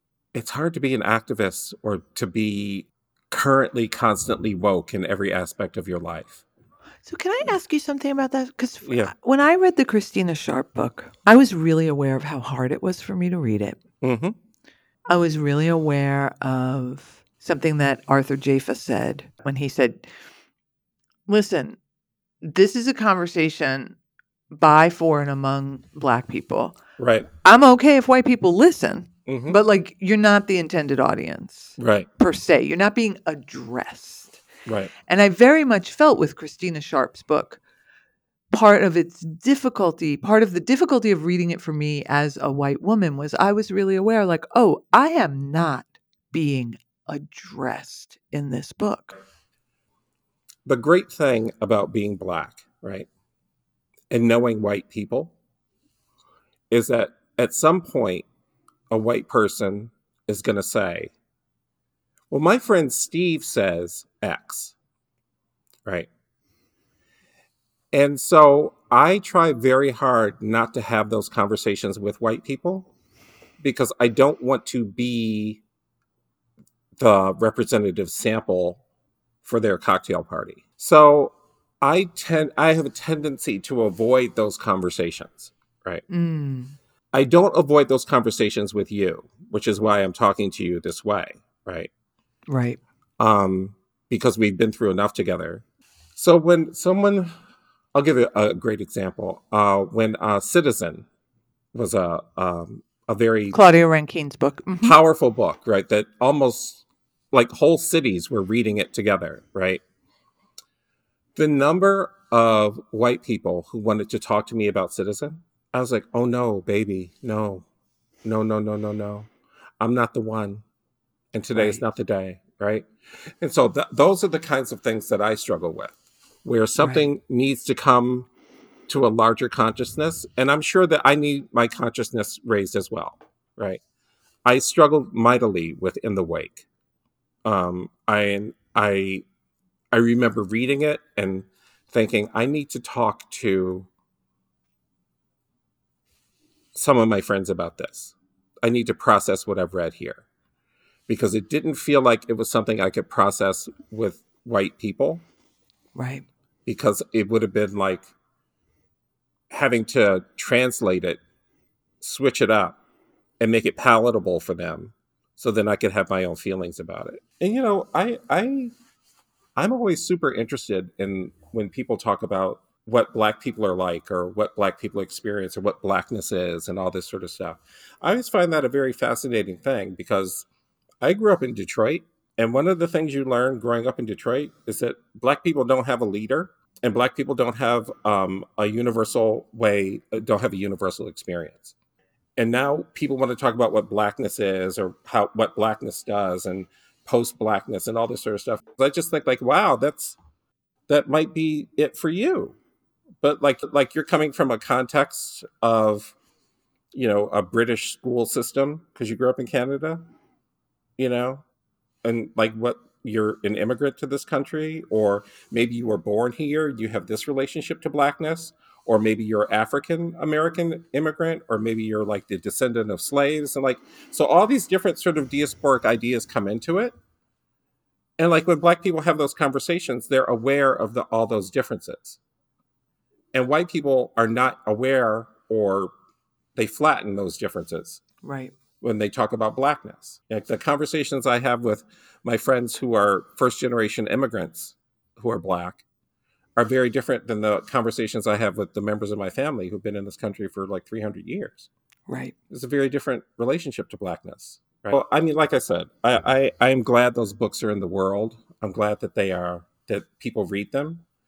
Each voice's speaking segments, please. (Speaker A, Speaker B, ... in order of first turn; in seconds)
Speaker A: 0.3-6.4, 8.8-9.1, 14.0-14.4, 27.0-27.3, 29.3-29.6, 31.8-32.1, 34.7-34.9, 50.7-53.1, 54.1-55.3, 56.7-58.3, 58.9-61.1, 62.3-64.8, 67.9-72.9, 73.6-75.6, 77.0-78.8, 79.4-86.0, 87.1-91.9, 93.2-95.6, 96.2-97.3, 97.9-101.1, 101.7-103.6, 104.8-109.8, 111.4-117.7, 118.2-120.6, 121.3-122.9, 123.4-128.3, 128.9-133.8, 134.4-136.7, 137.4-139.2, 139.9-143.9, 146.8-150.2, 151.1-155.2, 156.7-158.1, 159.5-161.2, 162.0-162.8, 163.4-168.7, 169.6-180.5, 181.0-191.7, 192.4-200.2, 200.9-202.6, 203.2-206.2, 206.9-210.1, 211.0-211.4, 212.0-226.9, 228.2-232.2, 233.3-235.9, 236.6-238.0, 238.8-245.8, 246.6-251.7, 252.5-261.0
Speaker B: 7.0-13.8, 15.1-20.1, 21.3-21.8, 22.4-24.0, 24.5-26.8, 27.4-34.4, 35.1-37.6, 38.5-49.2, 86.1-86.8, 92.5-92.8, 103.5-105.0, 121.5-121.8, 126.8-127.1, 155.9-156.2, 238.2-238.6, 252.1-252.3